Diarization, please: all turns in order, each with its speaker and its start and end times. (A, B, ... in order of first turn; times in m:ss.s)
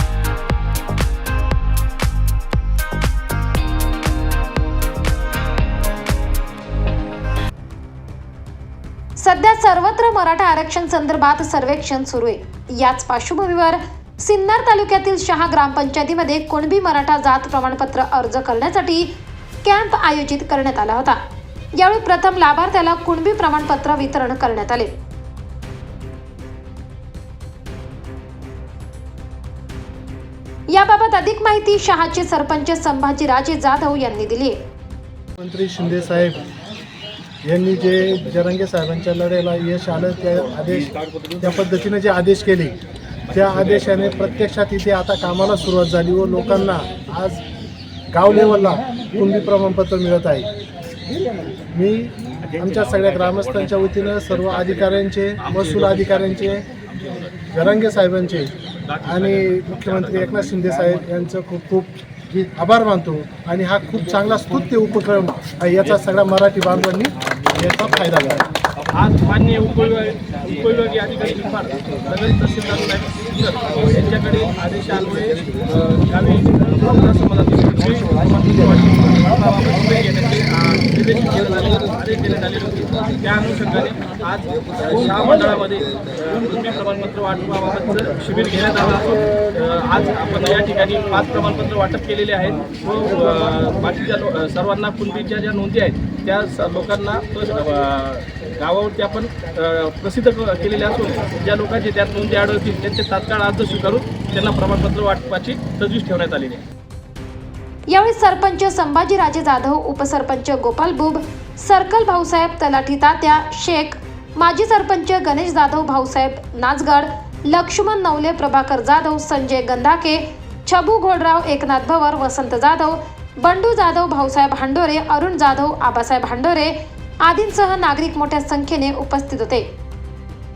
0:09.2-0:19.1 A
0:19.6-0:21.2 A
0:21.8-0:24.9 A
0:30.7-0:34.6 A
0:35.4-0:36.4 B
0:37.4-0:42.8 B
0:43.3-0:47.4 B
0:48.1-0:50.5 B
0:51.7-0:56.7 B
0:55.4-0:57.3 C
0:57.5-0:58.5 B
0:58.8-1:00.2 C
0:59.0-1:08.4 B
1:08.9-1:46.6 C
1:47.9-2:09.7 A